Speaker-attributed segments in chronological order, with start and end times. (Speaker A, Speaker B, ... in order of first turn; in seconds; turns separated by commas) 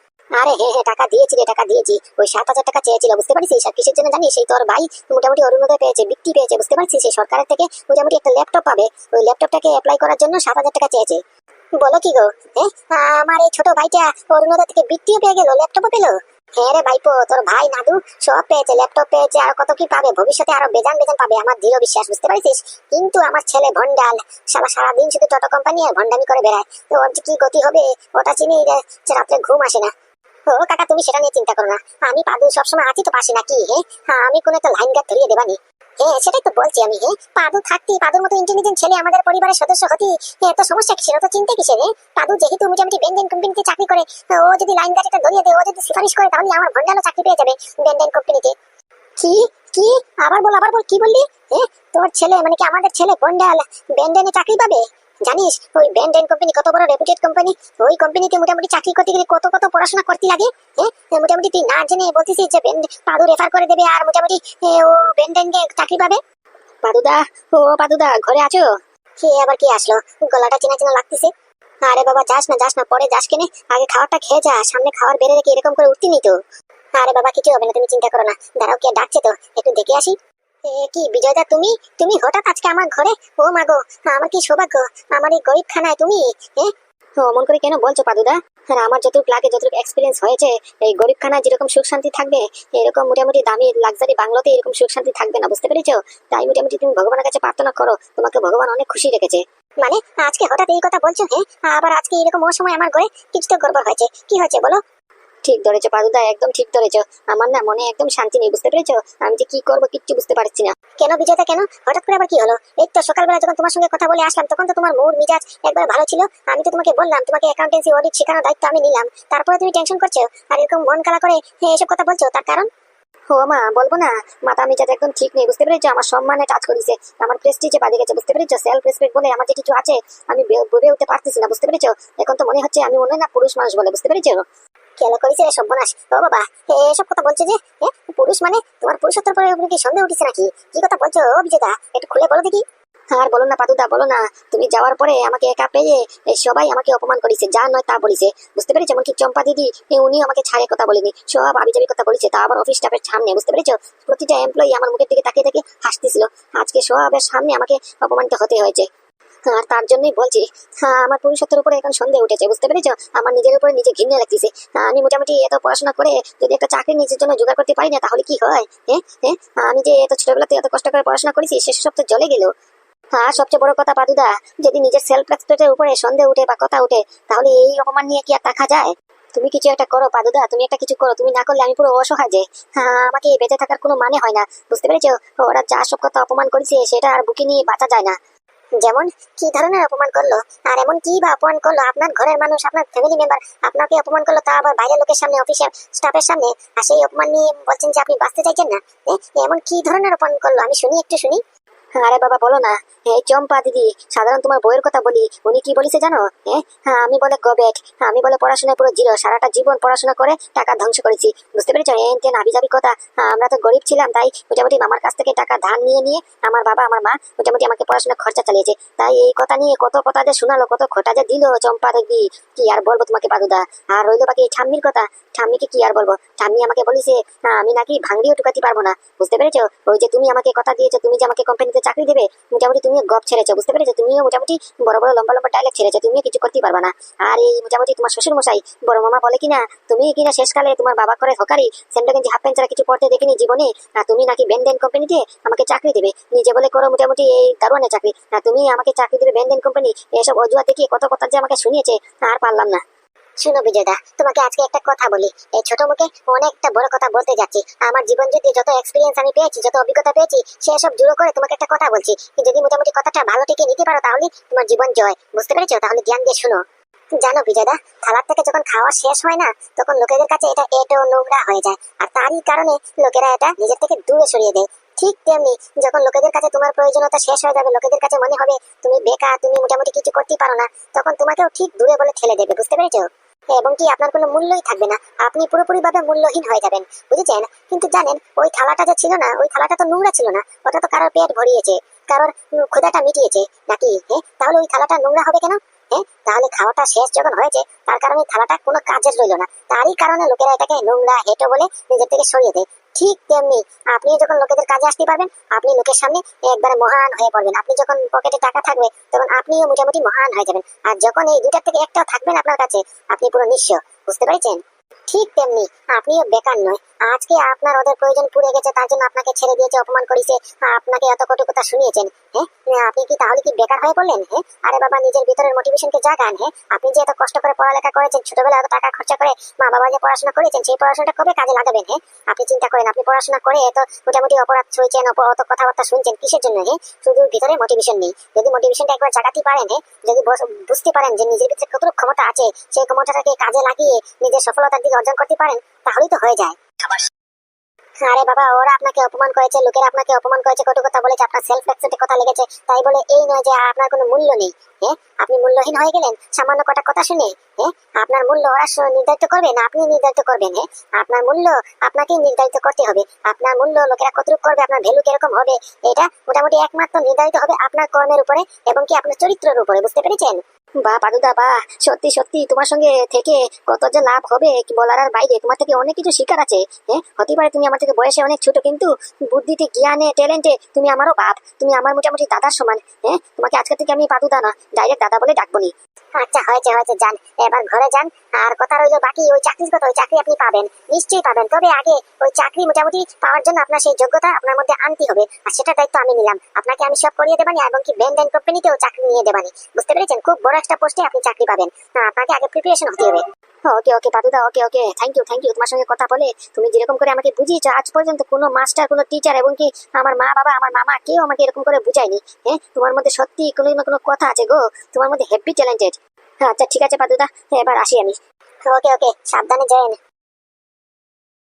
Speaker A: 0.4-11.2, Speaker B: 11.8-29.9, Speaker B: 30.5-48.5, Speaker B: 49.2-66.2, Speaker A: 66.8-68.7, Speaker B: 69.2-71.3, Speaker B: 71.9-76.3, Speaker A: 75.9-76.1, Speaker B: 77.0-86.7, Speaker A: 87.2-99.4, Speaker B: 99.8-104.8, Speaker A: 105.5-110.7, Speaker B: 111.0-122.7, Speaker A: 123.3-134.4, Speaker B: 135.0-142.6, Speaker A: 143.1-158.9, Speaker A: 159.5-172.5, Speaker A: 173.2-188.2, Speaker B: 188.8-201.4, Speaker A: 202.0-252.8, Speaker B: 253.4-266.6, Speaker B: 267.2-346.6, Speaker B: 348.0-370.4, Speaker A: 370.9-385.7, Speaker B: 386.2-403.2, Speaker A: 403.7-418.2, Speaker B: 418.7-420.0